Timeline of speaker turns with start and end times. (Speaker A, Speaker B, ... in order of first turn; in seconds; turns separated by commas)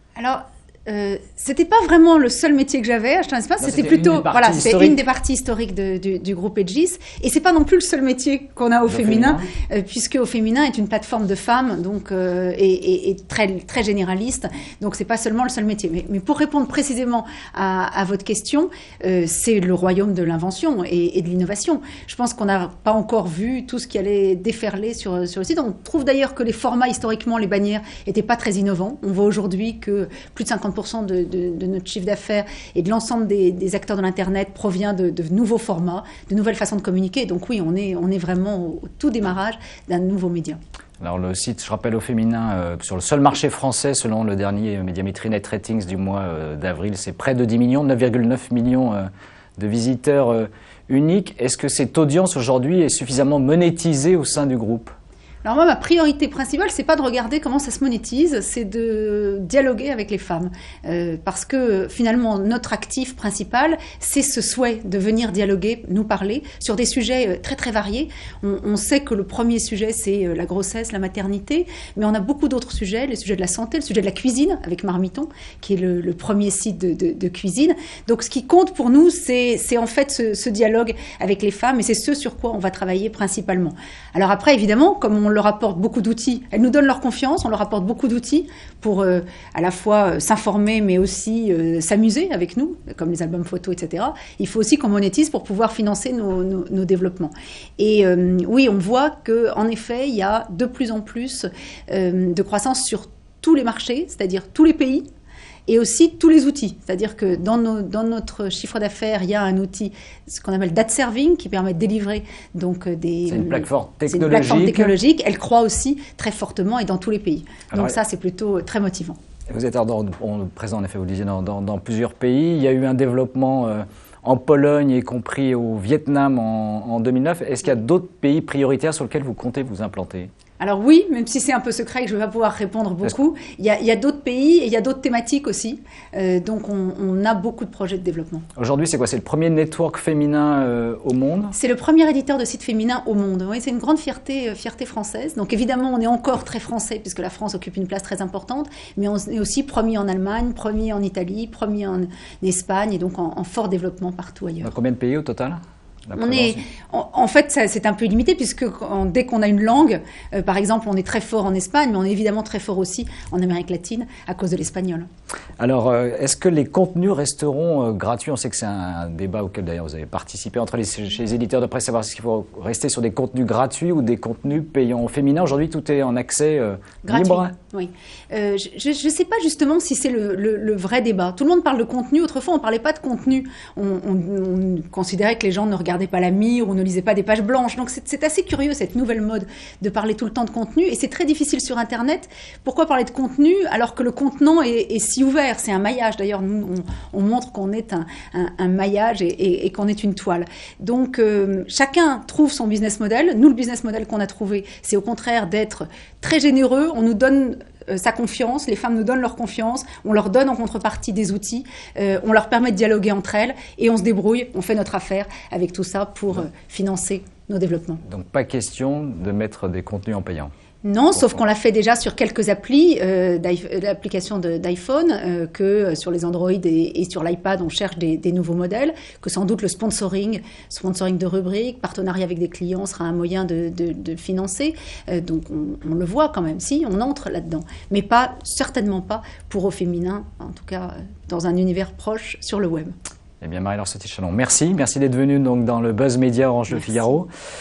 Speaker A: 0.2-40.6, Speaker B: 3.6-5.0, Speaker B: 8.9-9.5, Speaker B: 41.0-54.9, Speaker A: 55.4-105.1, Speaker A: 105.7-119.2, Speaker B: 113.3-115.0, Speaker B: 119.5-130.3, Speaker A: 130.6-138.4, Speaker B: 138.6-141.5, Speaker A: 141.5-154.7, Speaker B: 154.6-156.6, Speaker A: 156.2-165.1, Speaker B: 165.6-177.5, Speaker A: 177.0-218.0, Speaker B: 218.1-220.5, Speaker A: 220.8-242.9, Speaker B: 243.4-247.3, Speaker A: 246.7-247.1